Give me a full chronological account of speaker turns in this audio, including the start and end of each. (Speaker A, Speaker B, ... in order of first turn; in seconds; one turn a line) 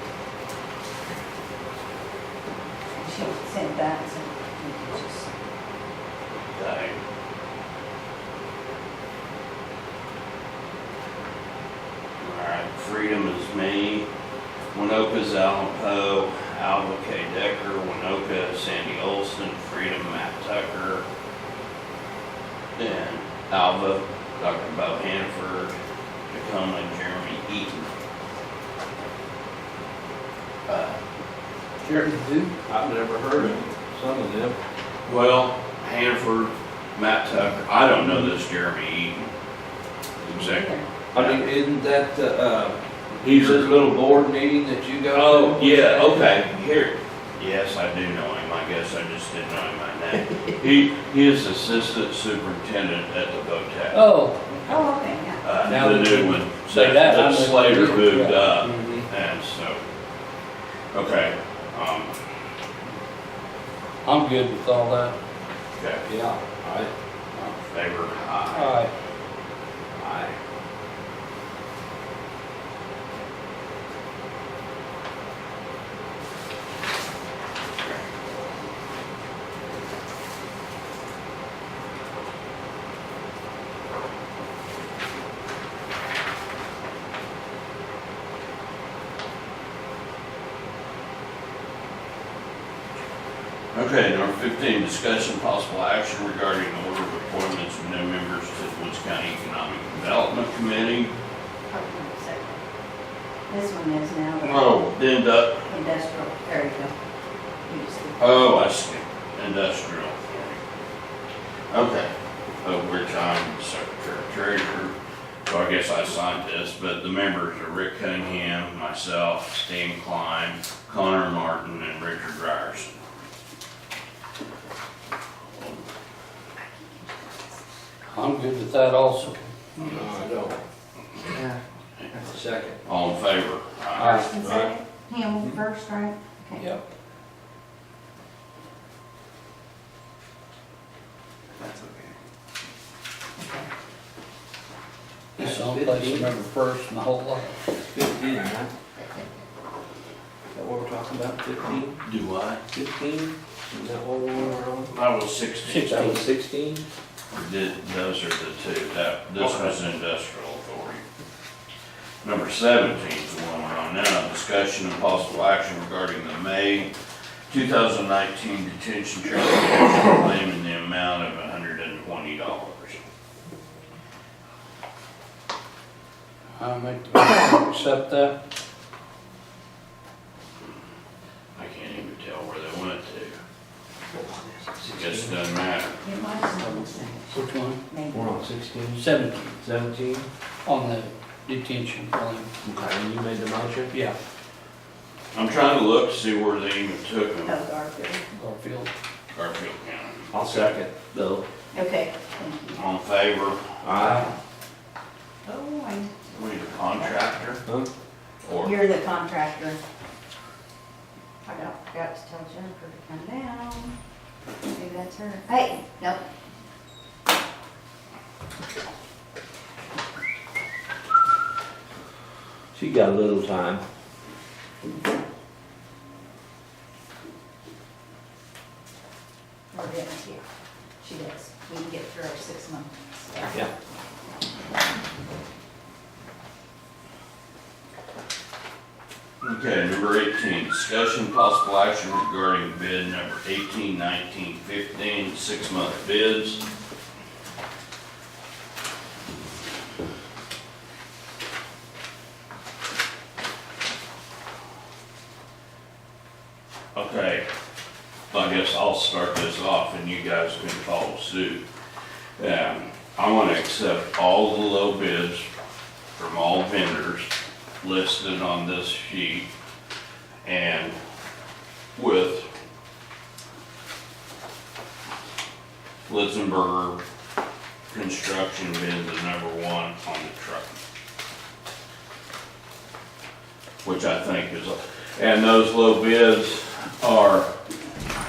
Speaker A: 3.0-5.3
Speaker B: 6.5-7.0
Speaker B: 12.2-14.1
Speaker B: 14.7-21.0
Speaker B: 22.8-25.8
Speaker B: 26.3-27.9
Speaker B: 30.7-31.0
Speaker C: 31.8-32.5
Speaker D: 32.7-34.6
Speaker B: 35.0-39.3
Speaker B: 40.2-41.5
Speaker A: 40.4-40.9
Speaker D: 41.1-46.3
Speaker B: 43.1-43.9
Speaker B: 45.1-54.0
Speaker C: 53.9-54.7
Speaker A: 54.7-55.4
Speaker B: 55.4-59.8
Speaker C: 55.6-58.6
Speaker D: 58.7-59.0
Speaker B: 60.9-62.2
Speaker C: 64.0-65.1
Speaker B: 65.8-66.0
Speaker D: 66.0-66.9
Speaker B: 67.6-68.8
Speaker C: 68.5-68.9
Speaker D: 70.0-70.4
Speaker B: 93.7-101.1
Speaker A: 101.7-102.6
Speaker A: 103.5-104.9
Speaker B: 104.4-105.6
Speaker A: 105.7-106.9
Speaker A: 107.7-108.5
Speaker B: 108.2-110.6
Speaker B: 111.7-114.9
Speaker B: 115.5-123.0
Speaker C: 128.0-130.0
Speaker D: 129.8-130.6
Speaker D: 132.1-132.8
Speaker B: 132.8-134.3
Speaker C: 133.9-134.3
Speaker A: 134.0-136.7
Speaker D: 134.4-134.7
Speaker D: 141.6-142.0
Speaker A: 143.4-143.7
Speaker C: 145.4-147.6
Speaker D: 145.4-146.3
Speaker D: 147.9-148.7
Speaker A: 149.0-149.2
Speaker D: 150.5-152.0
Speaker B: 152.0-152.6
Speaker D: 152.7-154.9
Speaker B: 154.9-156.0
Speaker C: 155.6-156.2
Speaker D: 155.9-156.8
Speaker B: 157.3-161.0
Speaker D: 159.4-159.7
Speaker B: 162.2-166.9
Speaker B: 167.5-173.0
Speaker C: 176.6-178.4
Speaker B: 181.6-183.4
Speaker D: 184.1-185.4
Speaker B: 184.9-186.0
Speaker A: 186.0-188.4
Speaker C: 187.3-187.8
Speaker D: 188.1-190.3
Speaker C: 188.9-189.5
Speaker C: 190.7-192.5
Speaker D: 192.6-194.0
Speaker C: 193.9-194.2
Speaker B: 195.3-197.6
Speaker A: 197.4-198.2
Speaker C: 198.3-198.9
Speaker B: 199.3-200.7
Speaker D: 200.3-201.4
Speaker A: 201.7-202.8
Speaker B: 202.7-203.8
Speaker D: 203.8-204.3
Speaker C: 204.0-204.3
Speaker A: 205.4-206.1
Speaker B: 206.3-207.6
Speaker B: 208.4-208.8
Speaker A: 208.6-209.8
Speaker A: 211.4-213.9
Speaker A: 214.6-216.2
Speaker D: 222.7-223.8
Speaker A: 229.7-230.4
Speaker A: 231.0-233.6
Speaker B: 239.4-246.6
Speaker B: 256.9-257.4
Speaker B: 258.3-261.6
Speaker B: 262.4-265.5
Speaker B: 266.1-269.5
Speaker B: 270.4-271.0
Speaker B: 271.9-272.5
Speaker B: 276.0-277.0
Speaker B: 277.9-280.7
Speaker B: 283.8-287.5